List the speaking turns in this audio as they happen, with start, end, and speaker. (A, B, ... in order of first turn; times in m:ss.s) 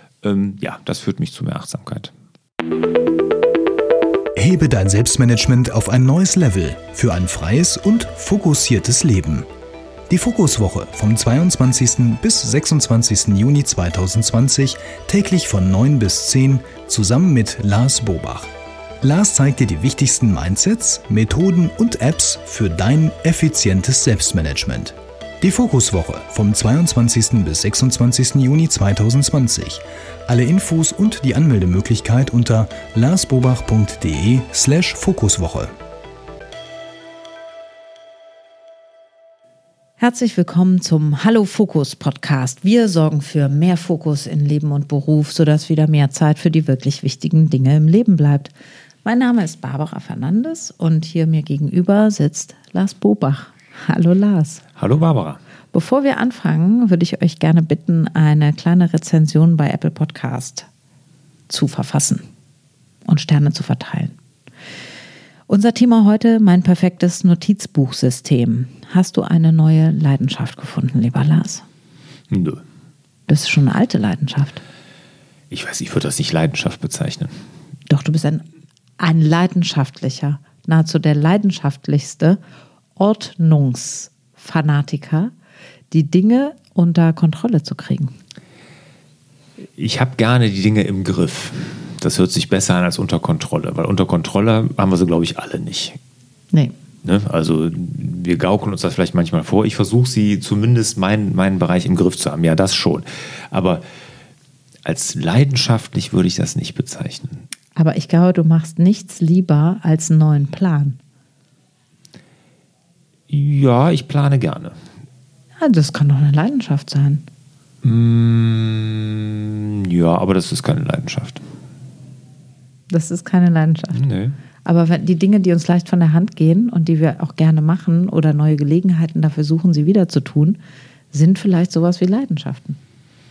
0:00.2-0:02.1 A
0:04.4-0:09.4 B
0:10.1-0:18.5 B
0:19.0-0:35.7 B
0:40.0-0:48.5 C
0:49.0-0:54.6 C
0:54.8-0:55.4 A
0:55.7-1:00.7 C
1:01.5-1:02.2 C
1:03.0-1:04.1 C
1:05.5-1:11.6 C
1:12.3-1:12.6 A
1:13.3-1:14.6 C
1:15.5-1:17.3 A
1:17.9-1:18.4 C
1:19.0-1:22.4 C
1:23.0-1:25.3 C
1:25.9-1:28.1 C
1:29.8-1:36.0 A
1:37.0-1:43.8 A
1:44.8-1:47.4 A
1:47.8-1:51.0 C
1:53.3-1:54.8 A
1:55.6-1:57.2 C
1:57.8-2:01.4 A
2:02.9-2:04.0 C
2:03.9-2:04.4 A
2:04.6-2:10.6 C
2:11.1-2:12.8 C